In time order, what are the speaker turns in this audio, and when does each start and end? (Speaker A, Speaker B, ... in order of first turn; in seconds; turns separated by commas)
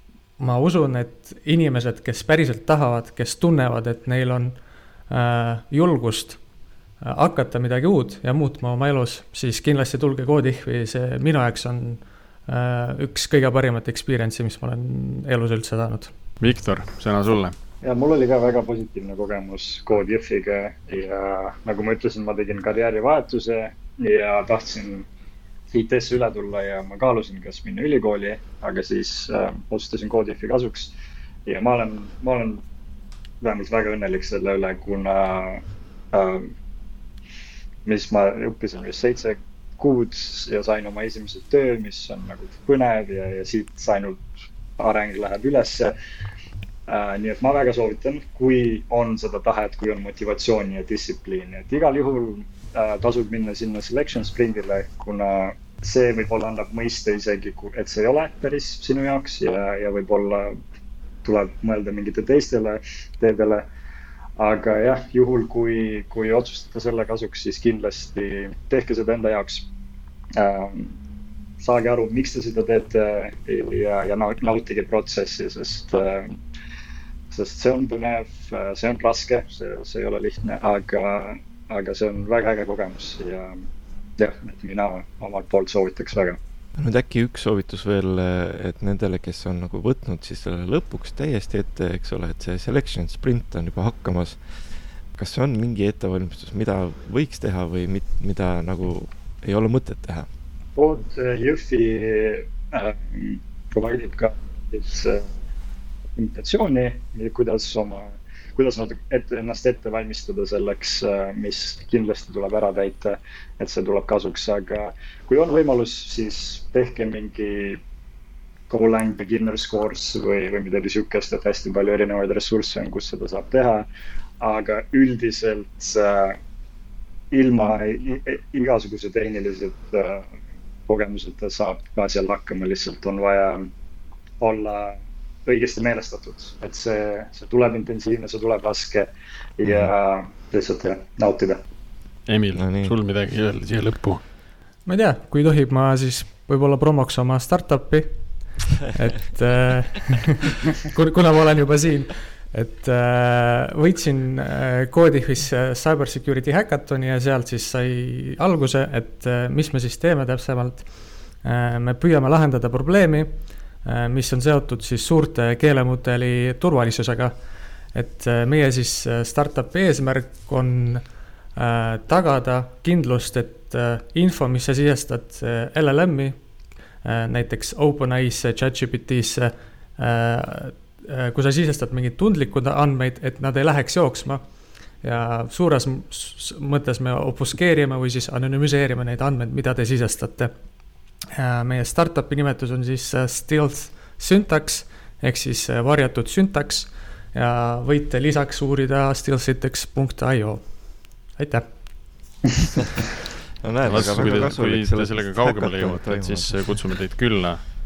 Speaker A: 0.4-6.4, Speaker A: 7.0-16.1, Speaker B: 16.4-17.6, Speaker C: 17.8-25.1, Speaker C: 25.7-30.9, Speaker C: 31.5-32.6, Speaker C: 33.4-36.5, Speaker C: 37.9-44.3, Speaker C: 44.8-46.0, Speaker C: 46.9-60.6, Speaker C: 61.2-63.6, Speaker C: 64.4-69.7, Speaker C: 70.4-71.0, Speaker C: 71.6-76.4, Speaker C: 77.3-83.7, Speaker C: 84.2-86.4, Speaker D: 86.8-100.3, Speaker C: 100.8-105.3, Speaker C: 106.2-117.8, Speaker C: 118.7-123.9, Speaker C: 124.4-126.4, Speaker C: 127.3-130.3, Speaker C: 130.9-133.7, Speaker C: 134.4-141.6, Speaker D: 139.7-139.9, Speaker B: 142.3-144.2, Speaker D: 142.6-143.0, Speaker A: 144.9-176.4, Speaker A: 177.0-184.5, Speaker A: 185.0-190.6, Speaker A: 191.4-201.7, Speaker D: 203.6-206.9, Speaker B: 203.8-207.7